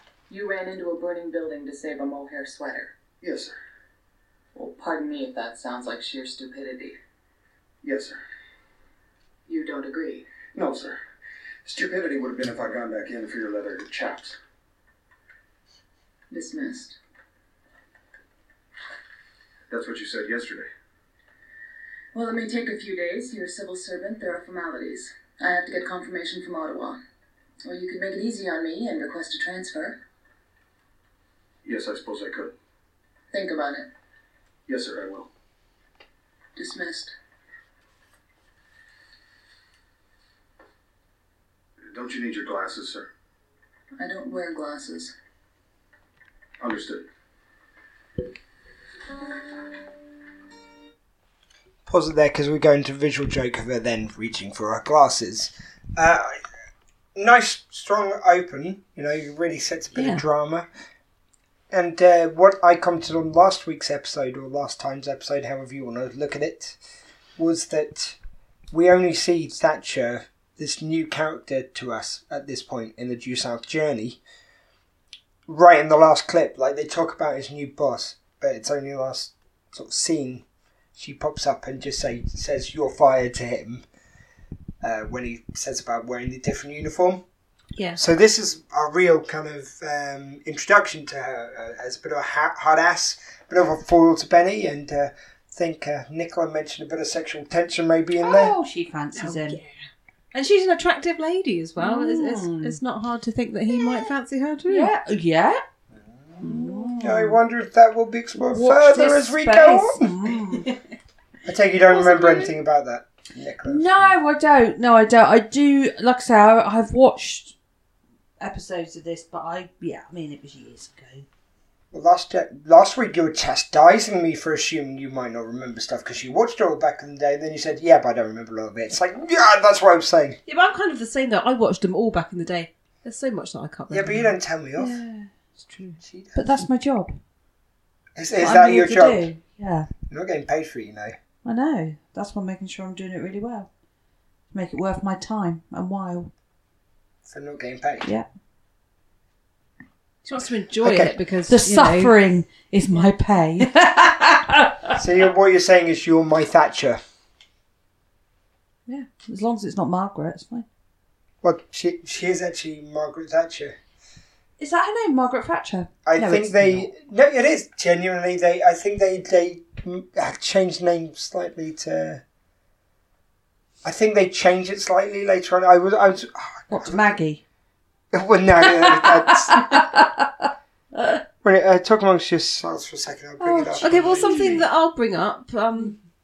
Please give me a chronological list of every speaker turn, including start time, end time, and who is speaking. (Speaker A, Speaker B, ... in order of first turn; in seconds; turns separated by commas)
Speaker A: 0.3-2.9, Speaker B: 3.2-3.5, Speaker A: 4.5-7.0, Speaker B: 7.8-8.2, Speaker A: 9.5-10.2, Speaker B: 10.5-11.0, Speaker B: 11.6-14.4, Speaker A: 16.3-17.0, Speaker B: 19.7-20.7, Speaker A: 22.1-27.0, Speaker A: 27.6-30.0, Speaker B: 31.6-32.5, Speaker A: 33.3-33.9, Speaker B: 34.7-35.3, Speaker A: 36.5-37.1, Speaker B: 41.9-43.1, Speaker A: 44.0-45.1, Speaker B: 46.6-47.0, Speaker C: 51.9-56.4, Speaker C: 57.1-60.7, Speaker D: 59.9-60.2, Speaker C: 61.7-66.8, Speaker C: 67.4-68.2, Speaker C: 68.7-74.2, Speaker C: 75.5-80.4, Speaker C: 81.0-83.8, Speaker C: 84.8-87.2, Speaker C: 88.0-98.5, Speaker E: 98.2-99.6, Speaker D: 99.2-99.7, Speaker D: 100.3-104.9, Speaker E: 101.8-102.8, Speaker E: 103.7-104.0, Speaker E: 104.7-105.6, Speaker E: 106.4-107.4, Speaker C: 107.0-110.1, Speaker E: 108.5-110.7, Speaker C: 111.5-114.0, Speaker D: 112.0-112.4, Speaker E: 113.6-117.5, Speaker E: 118.4-121.2, Speaker C: 121.9-130.4, Speaker D: 130.5-134.3, Speaker C: 133.9-135.0, Speaker E: 134.8-135.3, Speaker D: 135.6-136.0, Speaker C: 136.0-136.4, Speaker E: 136.3-137.1, Speaker C: 138.2-139.3, Speaker E: 138.4-139.9, Speaker C: 140.1-141.1, Speaker E: 141.4-143.7, Speaker E: 144.5-146.3, Speaker C: 147.3-148.1, Speaker D: 150.2-152.1, Speaker C: 150.8-151.1, Speaker E: 151.5-155.0, Speaker C: 154.9-157.0, Speaker E: 158.9-160.7, Speaker C: 161.4-163.8, Speaker E: 164.6-166.9, Speaker C: 166.1-172.2, Speaker C: 173.8-177.2, Speaker E: 176.7-177.4, Speaker C: 178.1-180.0, Speaker E: 178.6-180.4, Speaker C: 181.4-184.7, Speaker E: 183.4-184.4, Speaker D: 183.8-185.9